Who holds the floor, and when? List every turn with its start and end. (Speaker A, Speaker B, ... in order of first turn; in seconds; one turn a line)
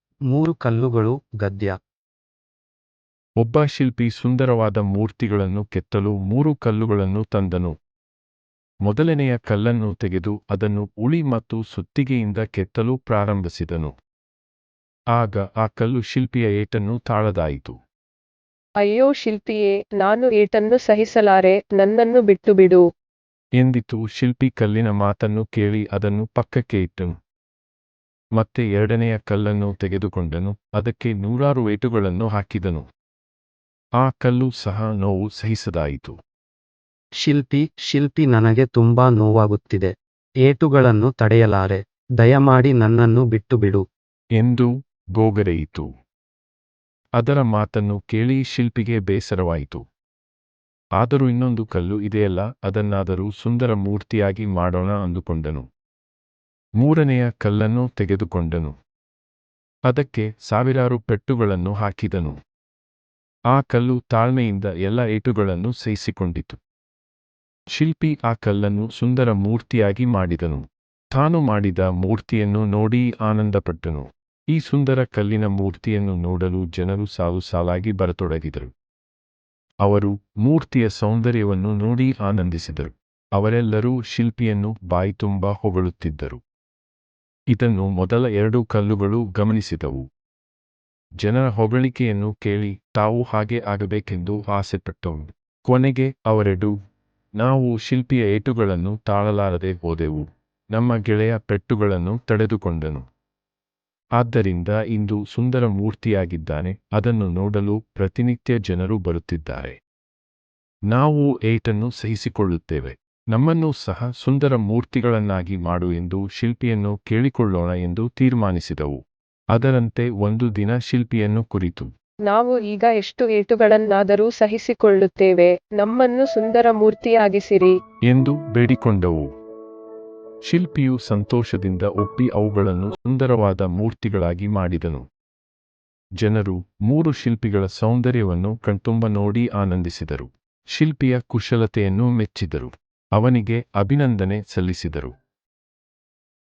Speaker A: 0.3-1.8
Speaker B: 3.4-7.7
Speaker B: 8.8-13.9
Speaker B: 15.1-17.8
Speaker C: 18.8-22.8
Speaker B: 23.6-27.1
Speaker B: 28.4-32.9
Speaker B: 34.0-36.2
Speaker A: 37.2-39.9
Speaker A: 40.4-43.8
Speaker B: 44.4-45.9
Speaker B: 47.2-49.8
Speaker B: 51.0-55.7
Speaker B: 56.8-58.8
Speaker B: 59.9-62.4
Speaker B: 63.5-66.6
Speaker B: 67.7-78.7
Speaker B: 79.8-86.4
Speaker B: 87.5-90.0
Speaker B: 91.2-96.7
Speaker B: 97.4-103.0
Speaker B: 104.2-109.8
Speaker B: 110.9-119.0
Speaker B: 119.5-121.9
Speaker C: 122.3-127.7
Speaker B: 128.1-129.3
Speaker B: 130.4-135.0
Speaker B: 136.2-145.1